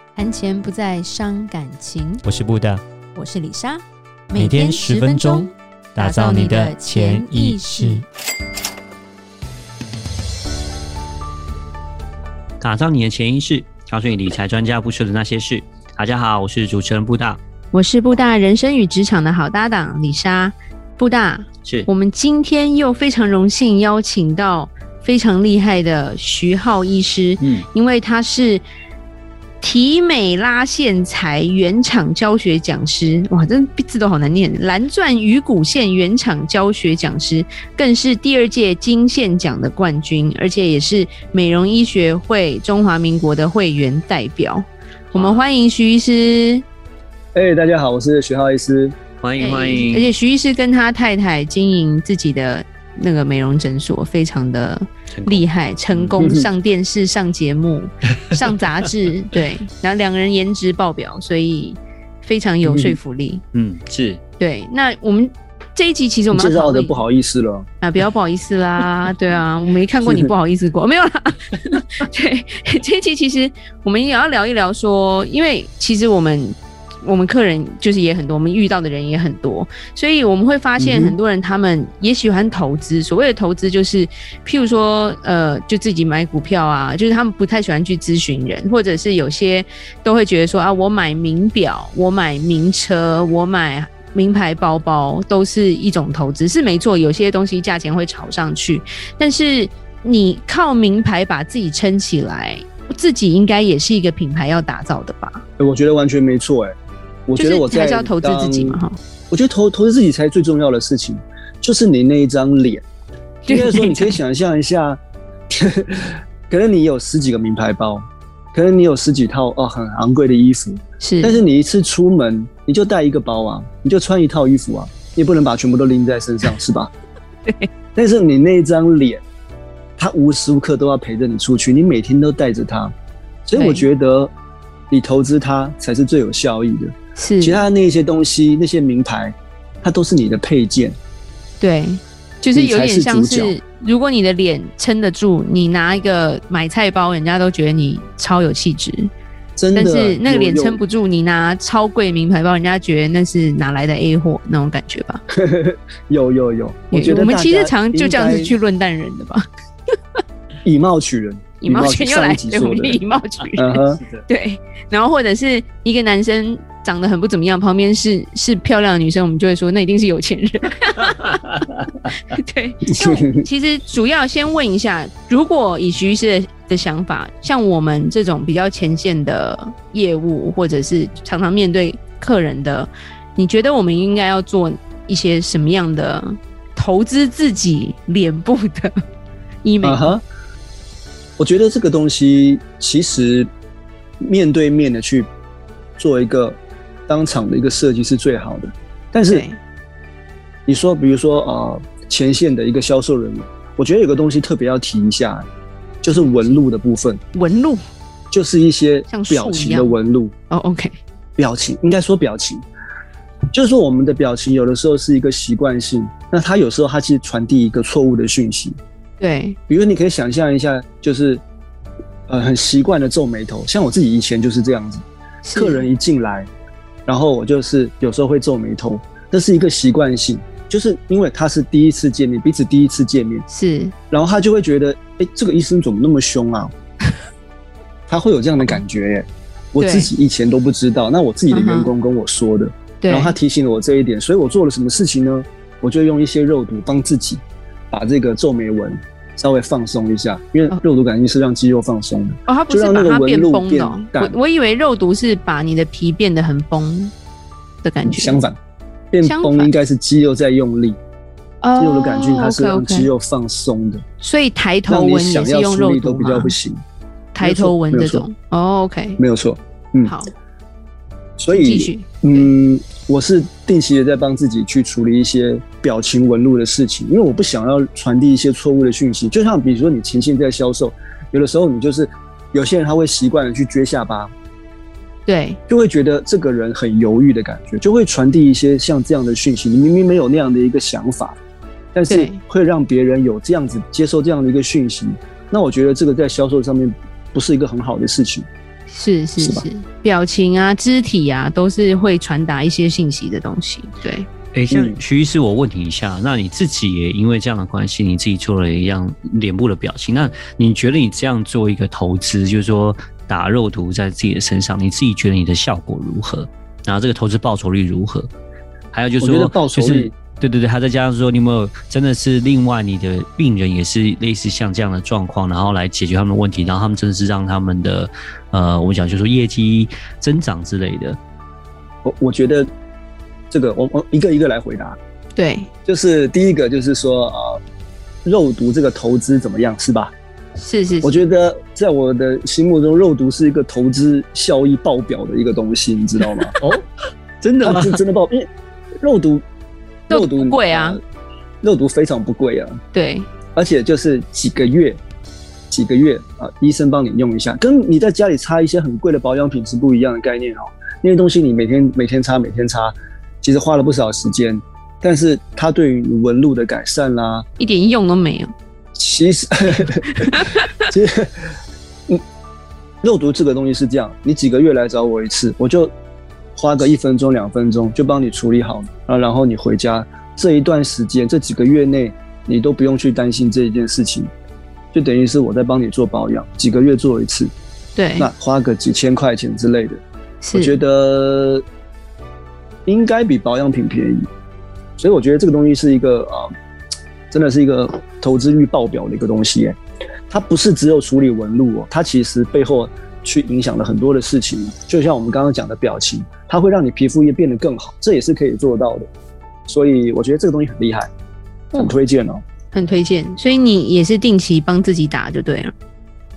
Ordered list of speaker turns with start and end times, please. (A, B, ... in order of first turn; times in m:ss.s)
0:00.2-0:02.2 A
0:02.2-0:02.8 B
0:03.2-0:08.0 A
0:04.4-0:08.0 B
0:12.6-0:17.4 B
0:17.7-0:28.6 A
0:27.4-0:27.6 B
0:29.6-0:46.6 A
0:45.1-0:45.4 B
0:47.3-0:49.0 C
0:49.2-0:50.1 B
0:49.4-1:03.4 A
0:55.1-0:56.2 B
0:56.2-0:56.5 C
1:02.6-1:03.0 C
1:03.5-1:04.2 B
1:04.4-1:07.0 A
1:06.3-1:07.7 C
1:07.8-1:45.4 A
1:10.1-1:10.3 C
1:20.8-1:21.2 C
1:45.6-1:46.8 C
1:47.3-1:52.8 C
1:47.4-1:49.0 A
1:53.5-1:54.2 A
1:53.5-2:06.9 C
2:01.0-2:01.4 A
2:08.0-2:09.2 C
2:10.0-2:12.9 C
2:13.4-2:14.3 C
2:13.6-2:13.8 A
2:14.9-2:21.0 C
2:17.2-2:17.7 A
2:21.6-2:29.1 A
2:22.5-2:23.6 C
2:29.6-2:30.8 C
2:29.7-2:35.2 A
2:35.3-2:38.6 C
2:36.9-2:39.4 A
2:40.6-2:43.0 C
2:41.6-2:51.4 A
2:43.6-2:44.2 C
2:52.1-3:08.9 A
2:52.9-2:53.5 C
3:09.6-3:10.2 A
3:09.8-3:10.2 C
3:11.4-3:13.5 C
3:14.2-3:15.3 C
3:16.0-3:19.4 C
3:19.3-3:19.6 A
3:20.7-3:25.5 C
3:26.0-3:27.2 C
3:26.1-3:26.6 A
3:27.3-3:27.8 A
3:28.3-3:30.3 C
3:29.1-3:30.0 A
3:30.5-3:31.0 A
3:31.4-3:32.6 C
3:33.5-3:38.8 C
3:39.2-3:39.6 A
3:39.7-3:41.4 C
3:42.3-3:46.5 C
3:45.4-3:45.9 A
3:47.1-3:53.5 C
3:53.5-3:53.9 A
3:54.1-3:56.7 C
3:58.1-4:14.4 C
3:59.8-4:00.1 A
4:01.5-4:01.9 A
4:03.0-4:03.4 A
4:12.5-4:17.1 A
4:17.8-4:18.4 A
4:18.0-4:18.6 C
4:19.1-4:21.0 C
4:19.2-4:19.7 A
4:21.6-4:23.1 A
4:21.8-4:24.0 C
4:24.2-4:26.6 A
4:24.9-4:26.8 C
4:27.3-4:29.2 A
4:27.4-4:28.3 C
4:29.2-4:30.1 C
4:30.0-4:30.3 A
4:31.4-4:44.3 C
4:31.5-4:32.5 A
4:45.3-4:45.6 A
4:45.7-4:51.4 C
4:51.9-4:58.5 C
4:52.1-4:52.4 A
4:58.9-5:04.3 A
4:59.4-4:59.7 C
5:04.5-5:18.3 B
5:04.7-5:05.0 C
5:18.9-5:31.2 B
5:19.2-5:20.1 C
5:32.0-5:32.7 C
5:33.5-5:35.0 C
5:35.4-5:35.7 A
5:35.9-5:37.6 C
5:38.2-5:40.1 C
5:40.6-5:41.2 A
5:41.0-5:46.5 C
5:47.4-5:48.0 B
5:47.6-5:48.5 C
5:49.0-5:49.4 C
5:50.1-5:51.0 C
5:50.1-5:51.0 A
5:51.6-5:52.8 C
5:52.9-5:53.3 A
5:53.6-5:55.0 C
5:55.7-6:07.5 C
6:07.6-6:08.5 A
6:09.0-6:11.5 C
6:10.2-6:10.7 A
6:13.0-6:15.9 C
6:16.6-6:24.3 C
6:24.9-6:27.5 C
6:28.0-6:28.3 A
6:28.2-6:30.0 C
6:30.4-6:30.8 A
6:30.5-6:31.6 C
6:32.9-6:34.3 C
6:35.0-6:36.5 C
6:37.3-6:49.1 C
6:49.7-6:51.1 C
6:51.7-6:52.4 C
6:52.7-6:55.7 A